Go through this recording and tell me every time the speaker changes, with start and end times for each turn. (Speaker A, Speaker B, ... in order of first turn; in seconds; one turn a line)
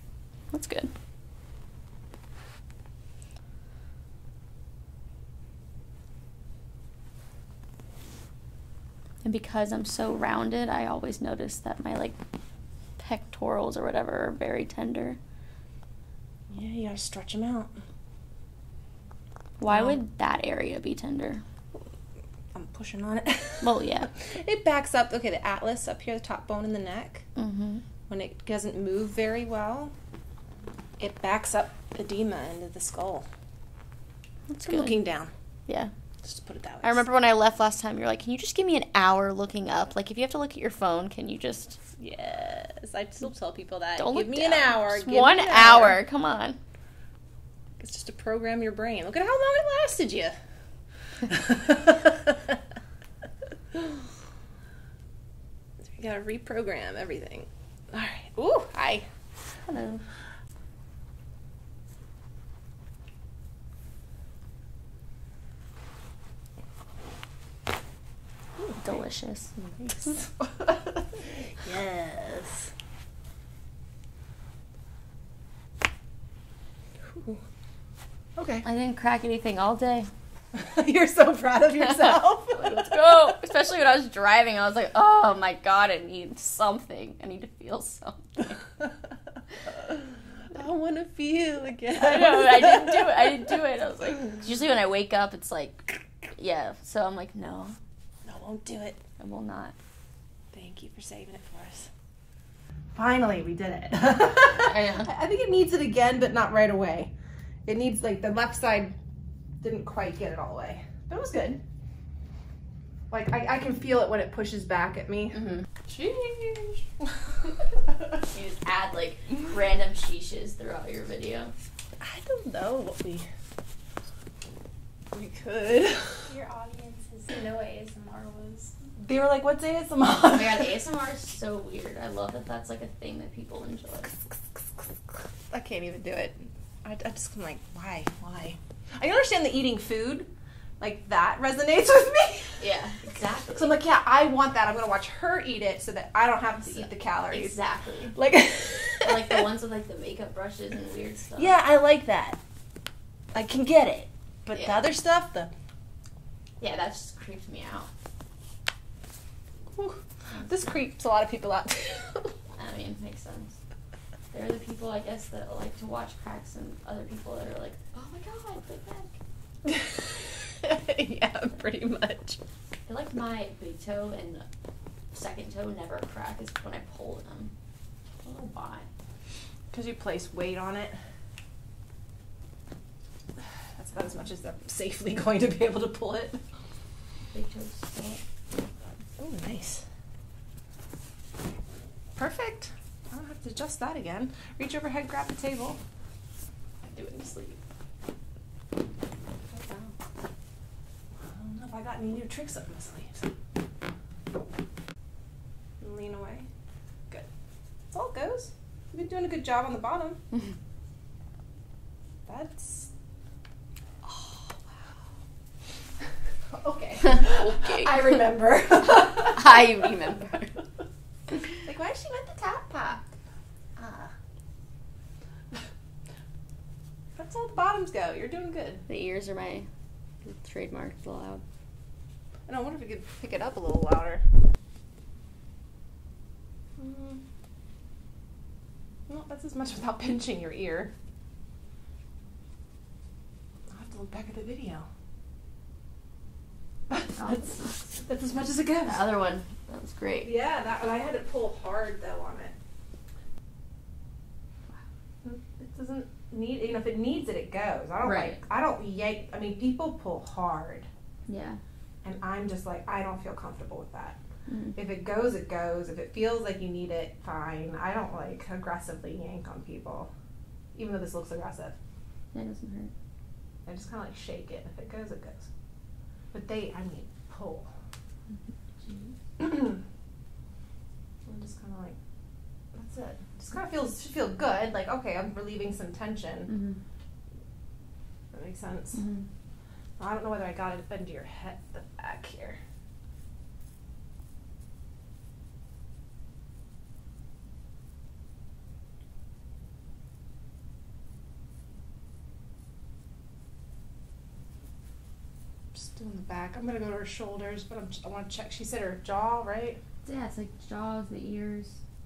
Speaker A: 0.5-0.9
Speaker A: 9.2-12.2
Speaker A: 13.0-15.2
Speaker B: 16.5-17.7
Speaker A: 19.6-21.4
Speaker B: 19.7-20.0
Speaker B: 22.5-27.2
Speaker A: 23.6-24.1
Speaker A: 27.4-27.8
Speaker B: 28.1-29.9
Speaker B: 31.0-33.3
Speaker A: 34.5-35.0
Speaker B: 34.6-35.3
Speaker A: 35.7-35.9
Speaker B: 36.2-37.0
Speaker A: 36.8-41.8
Speaker B: 42.0-46.0
Speaker A: 44.0-46.6
Speaker B: 47.8-50.4
Speaker B: 51.2-52.6
Speaker B: 55.9-59.1
Speaker A: 59.6-60.0
Speaker B: 68.6-69.0
Speaker A: 68.8-70.1
Speaker B: 69.8-72.7
Speaker B: 77.1-77.4
Speaker B: 78.4-78.7
Speaker A: 78.6-80.1
Speaker B: 80.5-83.1
Speaker A: 81.8-88.6
Speaker B: 90.5-93.5
Speaker A: 92.0-97.8
Speaker B: 98.2-99.0
Speaker A: 99.2-99.8
Speaker B: 100.5-101.9
Speaker B: 102.9-107.1
Speaker A: 104.4-105.1
Speaker B: 107.7-108.9
Speaker B: 109.6-111.6
Speaker B: 113.1-116.8
Speaker A: 115.4-115.6
Speaker A: 118.3-121.5
Speaker B: 122.0-123.3
Speaker B: 125.1-126.3
Speaker C: 126.2-128.7
Speaker B: 129.0-130.8
Speaker A: 130.3-134.1
Speaker B: 134.1-140.3
Speaker B: 140.8-142.6
Speaker A: 142.6-143.8
Speaker B: 143.5-147.6
Speaker A: 146.7-148.2
Speaker B: 148.1-149.4
Speaker A: 149.0-151.6
Speaker B: 151.4-152.4
Speaker B: 153.3-155.5
Speaker A: 156.6-157.9
Speaker B: 159.7-162.4
Speaker A: 162.5-163.6
Speaker A: 164.3-169.2
Speaker B: 169.6-172.4
Speaker A: 172.9-174.4
Speaker A: 175.1-177.5
Speaker A: 178.2-178.9
Speaker B: 179.7-181.0
Speaker B: 183.4-186.4
Speaker A: 187.3-188.2
Speaker B: 189.2-189.8
Speaker B: 192.2-195.8
Speaker A: 196.8-197.6
Speaker A: 199.6-199.9
Speaker B: 201.2-203.3
Speaker B: 205.8-206.5
Speaker B: 207.9-210.2
Speaker B: 212.3-212.9
Speaker B: 216.5-219.9
Speaker A: 217.0-218.1
Speaker A: 219.2-220.6
Speaker B: 221.6-223.1
Speaker B: 223.8-224.1
Speaker B: 227.2-228.8
Speaker A: 228.9-229.7
Speaker A: 230.2-231.4
Speaker B: 232.5-234.2
Speaker B: 236.8-237.2
Speaker B: 239.1-240.9
Speaker B: 243.7-244.9
Speaker B: 246.9-249.1
Speaker A: 247.2-248.0
Speaker A: 248.8-250.3
Speaker B: 250.2-252.5
Speaker B: 255.2-260.9
Speaker A: 258.0-258.4
Speaker A: 261.3-261.6
Speaker B: 262.0-264.2
Speaker A: 264.5-264.8
Speaker B: 264.8-270.1
Speaker B: 270.8-271.8
Speaker A: 272.3-272.9
Speaker B: 273.7-275.5
Speaker B: 276.3-277.7
Speaker A: 278.8-279.1
Speaker B: 279.4-279.8
Speaker B: 281.3-282.0
Speaker B: 282.7-286.5
Speaker A: 286.5-286.8
Speaker B: 288.3-289.0
Speaker A: 288.9-289.3
Speaker B: 290.0-292.6
Speaker B: 305.7-309.8
Speaker A: 310.1-311.8